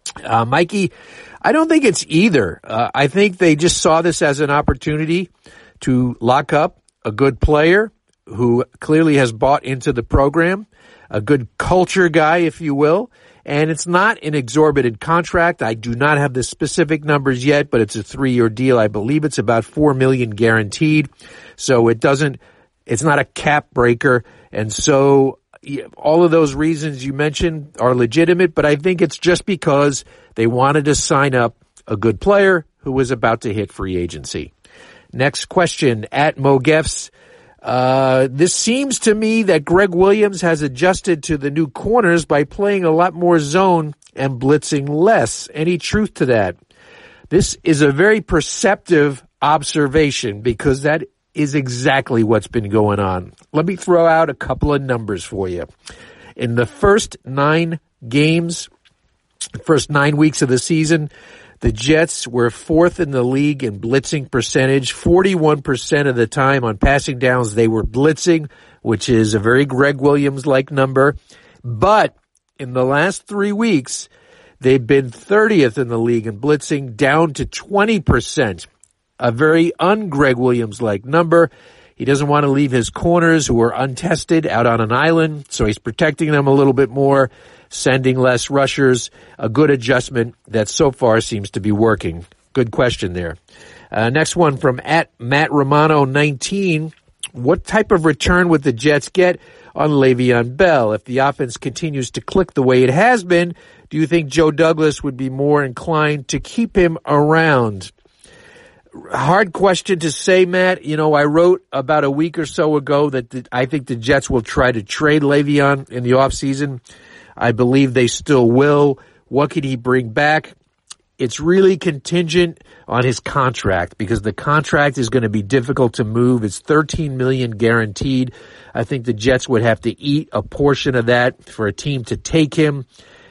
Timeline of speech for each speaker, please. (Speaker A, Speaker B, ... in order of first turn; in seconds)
Speaker A: 0.2-34.5, 35.1-37.1, 37.6-46.6, 47.3-55.7, 56.4-58.7, 59.6-74.1, 74.6-78.7, 79.2-93.4, 93.9-107.9, 109.1-116.8, 117.4-120.5, 121.2-132.9